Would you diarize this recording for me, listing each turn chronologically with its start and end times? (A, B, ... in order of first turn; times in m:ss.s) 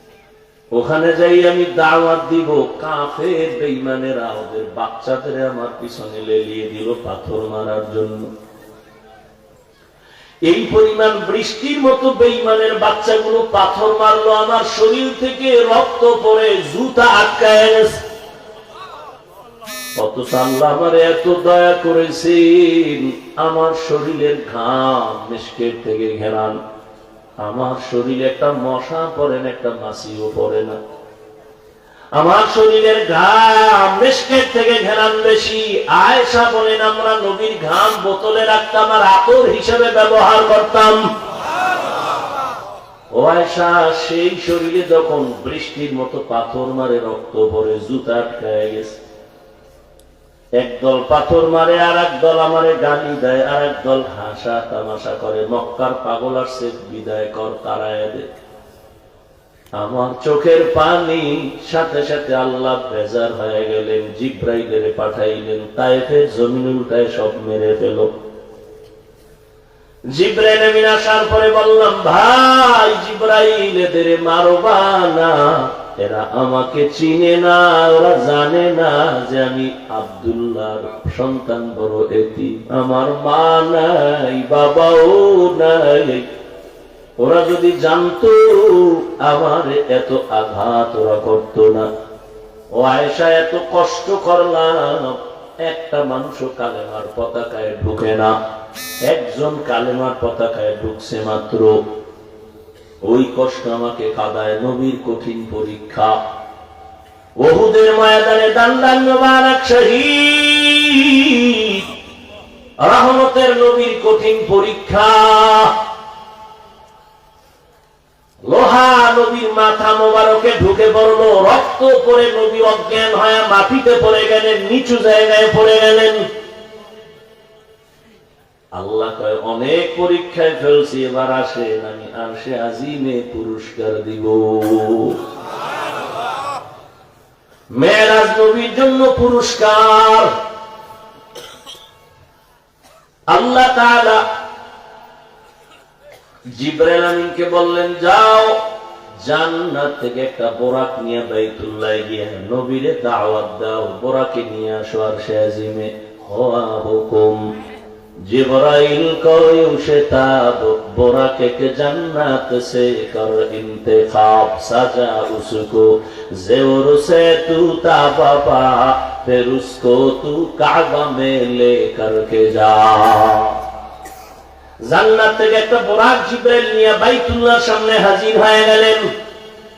0:00.7-0:08.3 A
0:10.4-0:18.0 A
0:20.0-0:26.6 A
0:27.4-0:30.8 A
0:32.2-0:41.0 A
0:43.1-0:49.0 A
0:50.6-0:58.3 A
0:59.8-1:08.1 A
1:10.1-1:26.3 A
1:27.2-1:31.9 A
1:32.8-1:38.3 A
1:39.0-1:41.8 A
1:43.0-1:46.2 A
1:47.4-1:51.9 A
1:52.8-1:55.8 A
1:58.4-2:06.2 A
2:08.8-2:15.2 A
2:17.7-2:20.3 A
2:23.3-2:24.2 A
2:26.5-2:28.6 A
2:29.2-2:37.5 A
2:38.2-2:53.6 A
2:54.8-2:59.1 A